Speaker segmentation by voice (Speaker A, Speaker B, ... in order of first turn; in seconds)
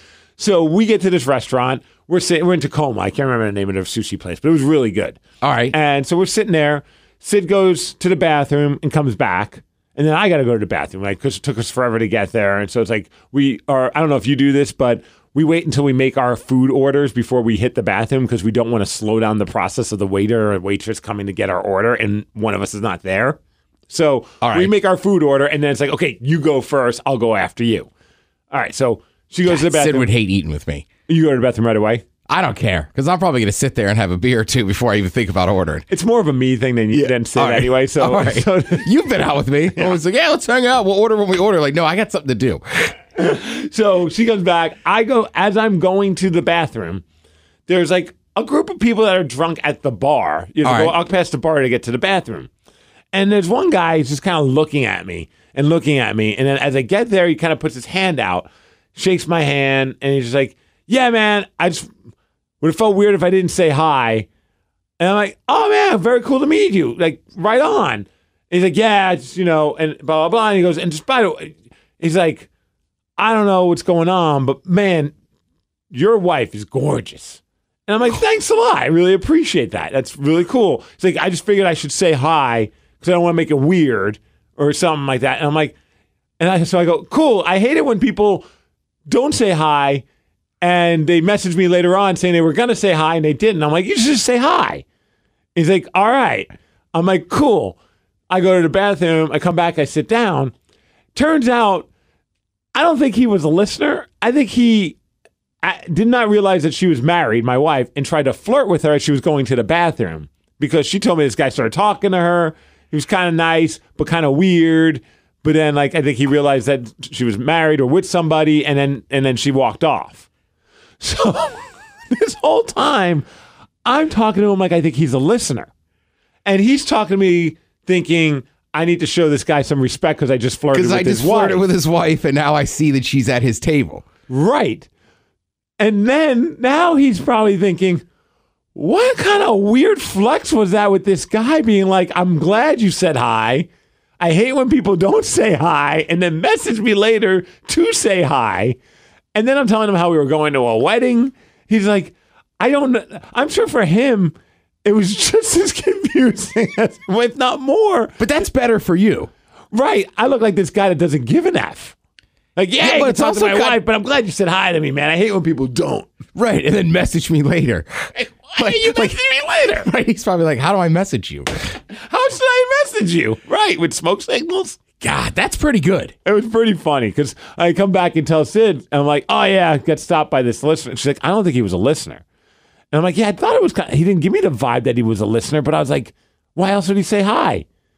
Speaker A: 0.4-5.2, 5.7-27.9, 28.5-30.1, 31.1-32.0, 35.9-38.9, 43.2-47.0, 47.7-52.5, 53.1-61.9, 62.6-64.3, 65.0-72.5, 73.2-75.1, 75.9-85.8, 86.4-88.5, 89.1-90.0, 90.6-94.8, 95.5-97.8, 98.3-100.5, 101.2-101.9, 102.7-105.0, 105.6-120.3, 121.0-123.3, 123.8-125.7, 126.5-131.6, 134.3-134.9, 135.8-138.0, 138.8-143.7, 144.2-148.8, 149.3-158.2, 159.7-161.9, 162.6-166.1, 168.5-169.9, 171.9-174.8, 176.2-182.2, 182.9-187.7
Speaker B: 5.4-5.8, 24.4-24.7, 29.5-30.9, 32.3-35.9, 36.9-42.9, 50.6-51.0, 130.7-134.1, 158.2-159.3, 162.8-163.8, 166.3-171.5, 175.0-176.1